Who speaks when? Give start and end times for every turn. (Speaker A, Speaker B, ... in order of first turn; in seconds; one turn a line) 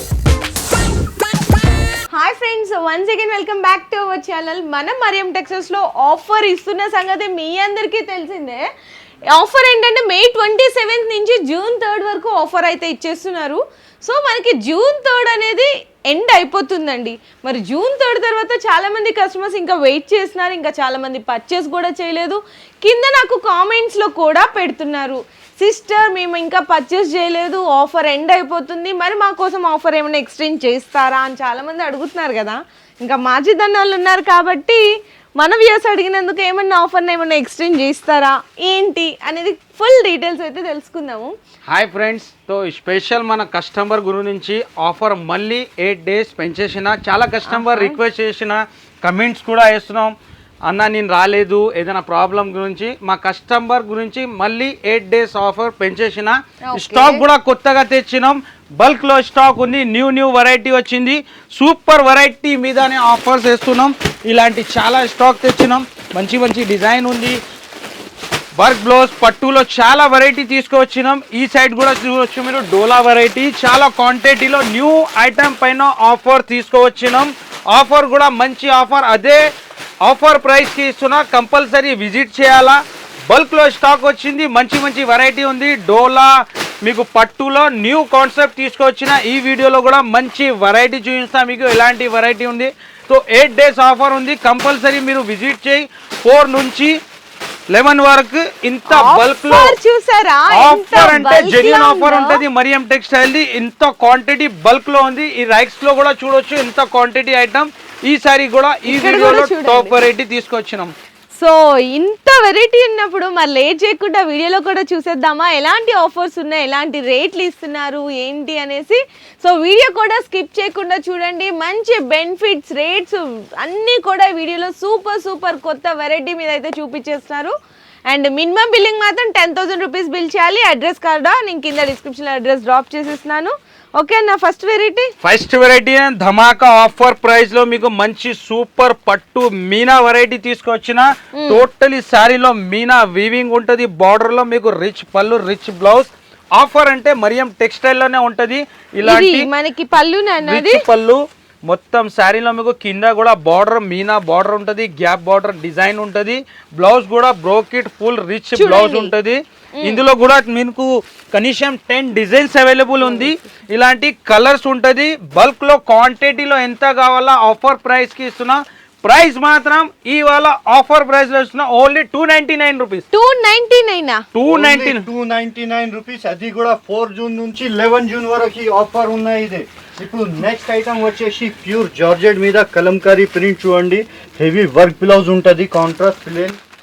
Speaker A: 2.1-8.6
Speaker A: 9.3-34.8
Speaker A: 35.4-41.3
Speaker B: 41.7-50.1
Speaker A: 47.5-48.0
Speaker B: 50.6-67.4
Speaker A: 56.6-57.2
Speaker B: 68.6-79.4
Speaker B: 80.0-96.9
Speaker B: 97.7-99.8
Speaker A: 98.9-102.4
Speaker B: 100.5-110.9
Speaker A: 108.9-110.0
Speaker A: 111.4-127.5
Speaker A: 128.1-135.1
Speaker B: 135.2-149.5
Speaker A: 141.3-141.6
Speaker A: 149.0-150.8
Speaker B: 150.4-173.0
Speaker A: 158.6-159.1
Speaker A: 159.8-160.0
Speaker A: 163.0-163.3
Speaker A: 173.1-174.2
Speaker B: 174.3-175.1
Speaker C: 174.5-186.6